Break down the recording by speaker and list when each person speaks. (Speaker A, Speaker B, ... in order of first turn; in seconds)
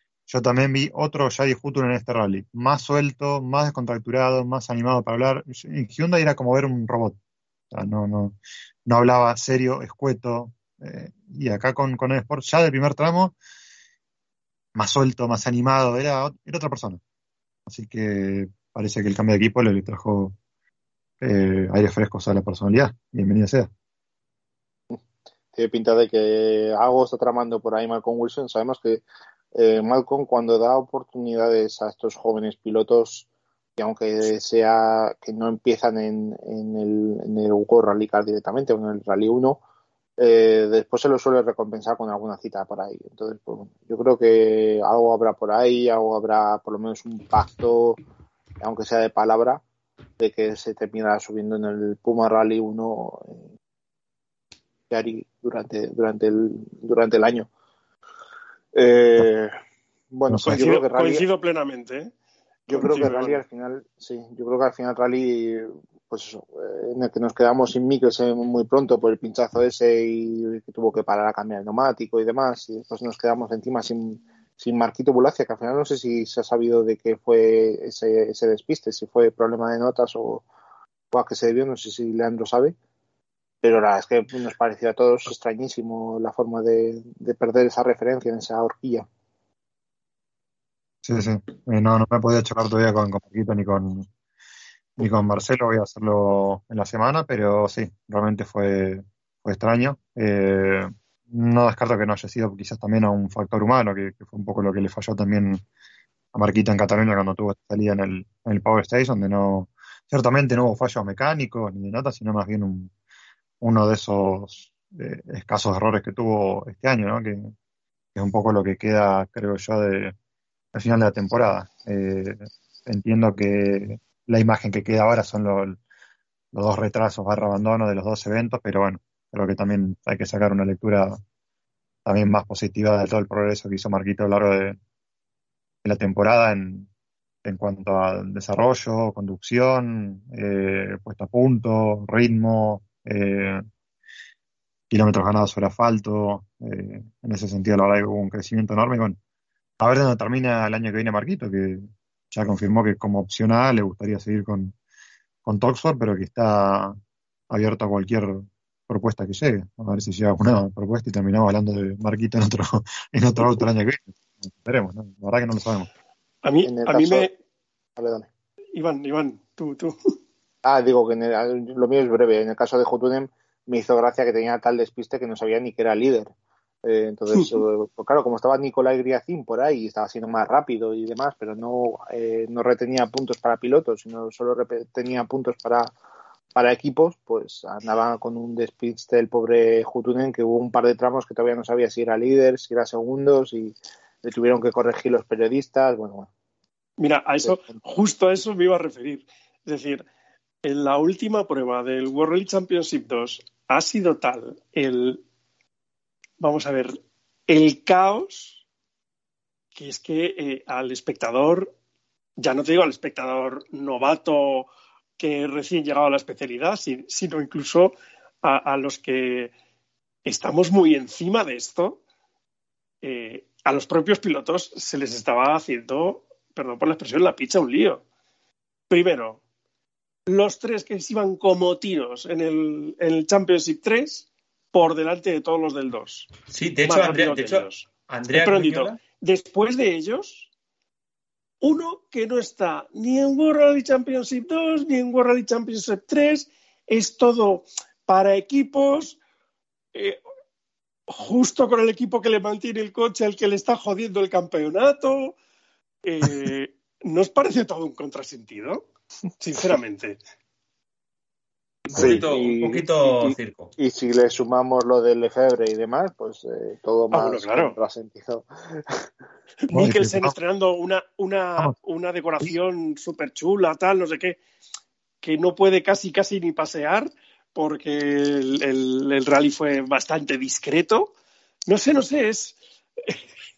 Speaker A: 0.3-7.2, 7.7-13.3, 14.7-17.0, 17.7-20.3, 21.2-23.7, 60.3-60.6, 91.0-94.1, 95.0-105.6, 106.3-112.9, 113.6-117.5, 118.1-120.1, 120.7-125.8, 126.5-131.2, 132.1-134.8, 135.8-136.9, 137.4-143.6, 144.9-149.2, 149.8-154.7, 155.4-157.0, 157.5-165.9, 269.7-270.4
Speaker B: 25.5-29.0, 29.5-39.6, 40.2-48.0, 48.6-49.6, 50.2-53.5, 54.9-57.5, 58.7-59.5, 60.1-61.2, 62.7-80.5, 81.1-82.7, 83.6-89.1, 166.6-167.3, 168.0-168.3, 170.6-176.3, 176.8-185.9, 186.5-196.3, 261.9-268.9
Speaker C: 60.4-62.1, 62.7-63.4, 166.4-167.3, 168.7-169.9, 197.0-200.1, 200.6-205.2, 206.4-208.6, 209.7-211.7, 212.4-219.5, 220.2-222.0, 223.0-228.0, 228.9-229.4, 230.3-236.3, 236.8-240.5, 241.6-249.2, 249.9-250.2, 251.1-255.3, 256.0-258.8, 259.4-260.2, 267.1-267.8, 269.6-274.4, 275.2-281.1, 281.7-283.2
Speaker D: 236.5-239.0, 261.9-263.7